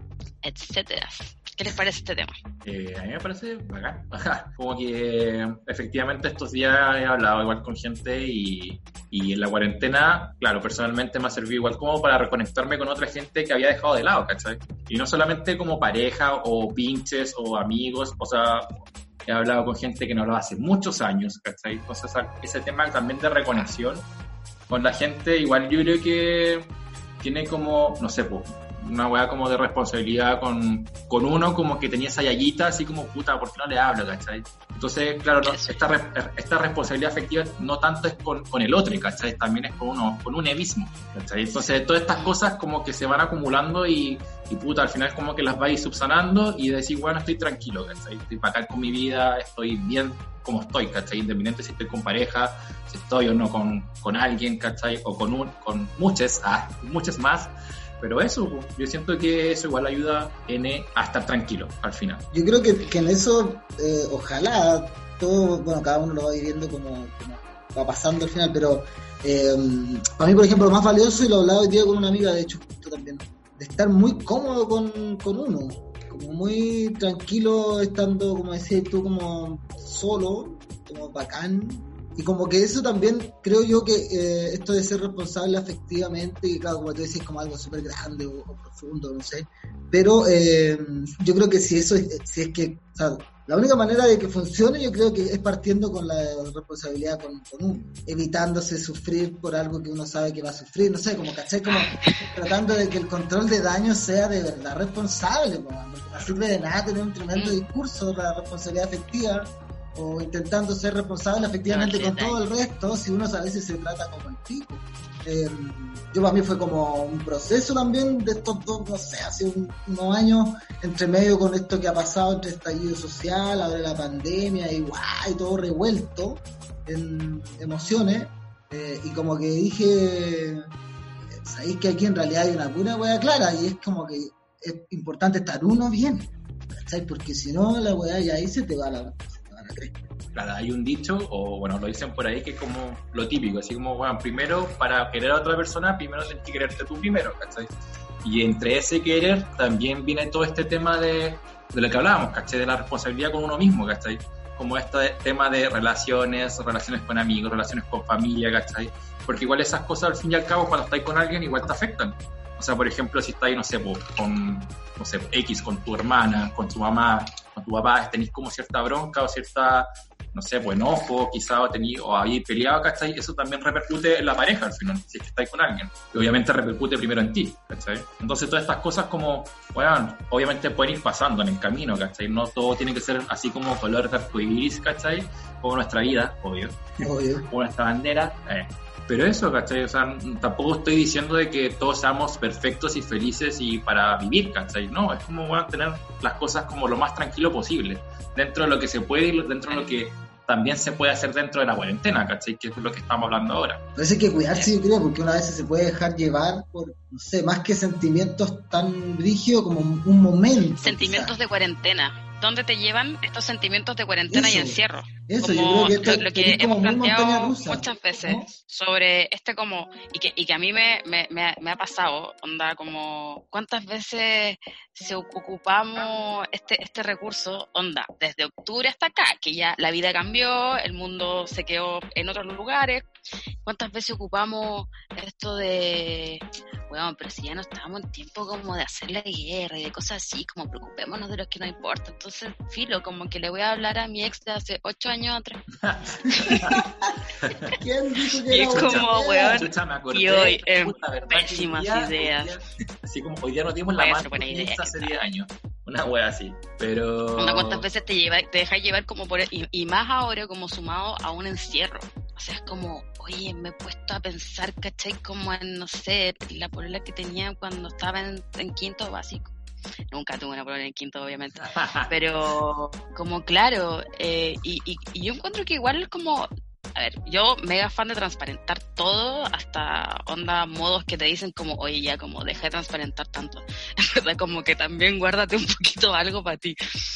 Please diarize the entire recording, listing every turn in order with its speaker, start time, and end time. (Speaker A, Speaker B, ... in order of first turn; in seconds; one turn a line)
Speaker A: 0.4-2.4
Speaker B: 2.6-24.1
Speaker B: 24.7-62.2
Speaker A: 35.4-35.8
Speaker A: 41.5-42.4
Speaker C: 62.3-130.7
Speaker A: 101.7-102.3
Speaker A: 111.7-112.4
Speaker C: 131.3-140.0
Speaker B: 140.3-147.7
Speaker B: 148.2-203.8
Speaker C: 187.0-187.5
Speaker A: 199.7-200.0
Speaker C: 203.9-211.3
Speaker A: 210.8-233.1
Speaker C: 214.3-218.5
Speaker A: 233.6-245.6
Speaker B: 245.8-246.8
Speaker A: 246.3-246.9
Speaker B: 247.4-247.7
Speaker C: 247.7-249.7
Speaker A: 248.5-252.5
Speaker B: 248.7-257.8
Speaker A: 253.9-255.1
Speaker A: 257.4-269.5
Speaker A: 270.1-286.8
Speaker B: 271.6-272.1